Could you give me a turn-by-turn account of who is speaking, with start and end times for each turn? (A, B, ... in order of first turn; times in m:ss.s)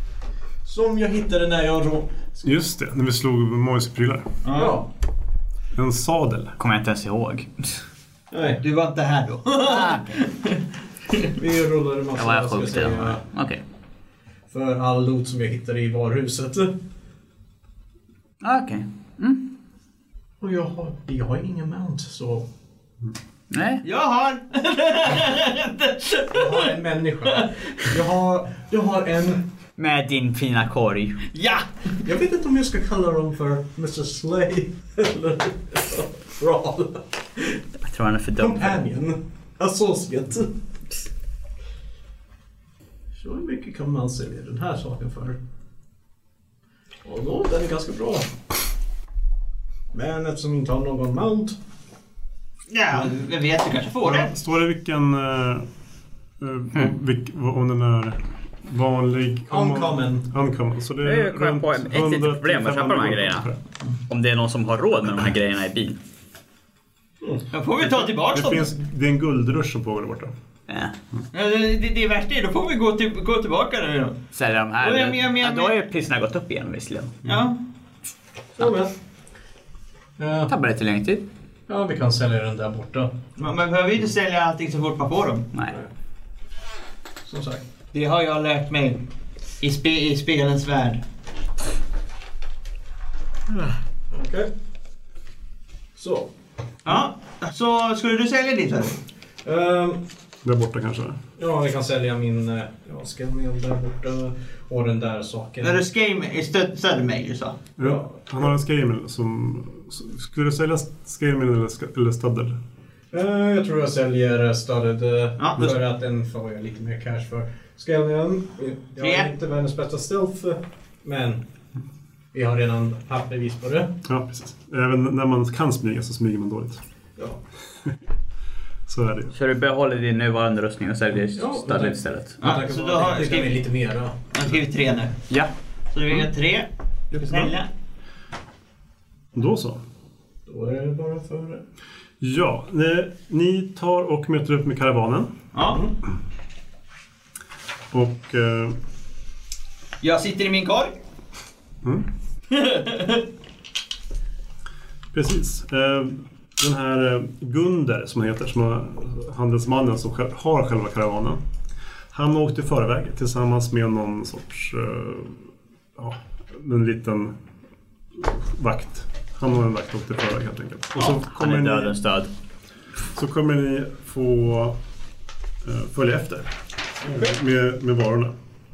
0:00.6-0:02.3 A
0:02.4-0:04.4 B
0:04.4-0:04.8 C
0:04.5-0:04.9 A
0:05.7-0:06.6 B
0:06.6-0:07.8 D
0:08.3-0:08.6 A
0:08.6-0:11.2 C
0:09.6-0:10.2 D
0:11.4-0:13.2 A
0:12.2-0:13.6 D
0:14.5-0:16.7 A
0:18.4-0:19.5 D
0:20.4-0:22.5 A
0:23.5-0:23.8 D
0:23.8-0:27.6 C
0:26.3-0:29.4 A
0:29.8-0:31.3 D
0:31.3-0:31.7 C
0:32.0-0:37.6 A
0:37.8-0:38.8 D
0:38.4-0:40.5 A
0:43.2-0:45.4 A
0:47.0-0:48.3 A
0:49.9-0:51.6 A
0:52.7-0:54.3 C
0:54.0-0:55.7 B
0:56.4-1:03.6 B
0:59.5-1:00.3 A
1:01.0-1:03.5 D
1:04.1-1:06.0 D
1:07.5-1:08.7 C
1:07.8-1:10.3 B
1:10.7-1:10.9 D
1:11.3-1:14.2 C
1:14.3-1:17.2 D
1:14.8-1:15.7 C
1:17.2-1:17.6 C
1:18.6-1:18.9 A
1:20.2-1:20.5 A
1:20.5-1:21.2 D
1:21.7-1:23.1 A
1:23.4-1:25.5 C
1:27.2-1:27.6 A
1:27.9-1:29.0 C
1:29.6-1:31.0 C
1:34.1-1:34.5 A
1:36.0-1:36.3 A
1:36.8-1:39.0 C
1:39.4-1:40.0 A
1:40.4-1:41.2 B
1:41.4-1:45.8 A
1:45.6-1:47.6 C
1:47.8-1:52.6 B
1:47.8-1:48.2 A
1:53.1-2:01.4 A
1:55.4-1:55.8 C
1:59.0-1:59.3 C
2:02.3-2:03.9 A
2:04.0-2:06.8 B
2:08.9-2:09.3 B
2:09.3-2:12.4 D
2:11.3-2:14.2 A
2:12.4-2:13.6 C
2:14.3-2:15.2 C
2:15.9-2:17.7 C
2:17.2-2:17.5 A
2:19.3-2:19.8 B
2:20.5-2:21.6 A
2:22.2-2:25.3 B
2:25.5-2:25.8 C
2:25.6-2:26.0 A
2:27.9-2:28.7 B
2:30.0-2:30.9 C
2:32.5-2:33.2 C
2:35.1-2:41.4 B
2:42.1-2:47.4 B
2:48.1-2:51.9 B
2:51.0-2:52.3 D
2:53.1-2:54.8 B
2:55.6-2:56.5 B
2:57.0-2:57.3 A
2:57.0-2:58.3 B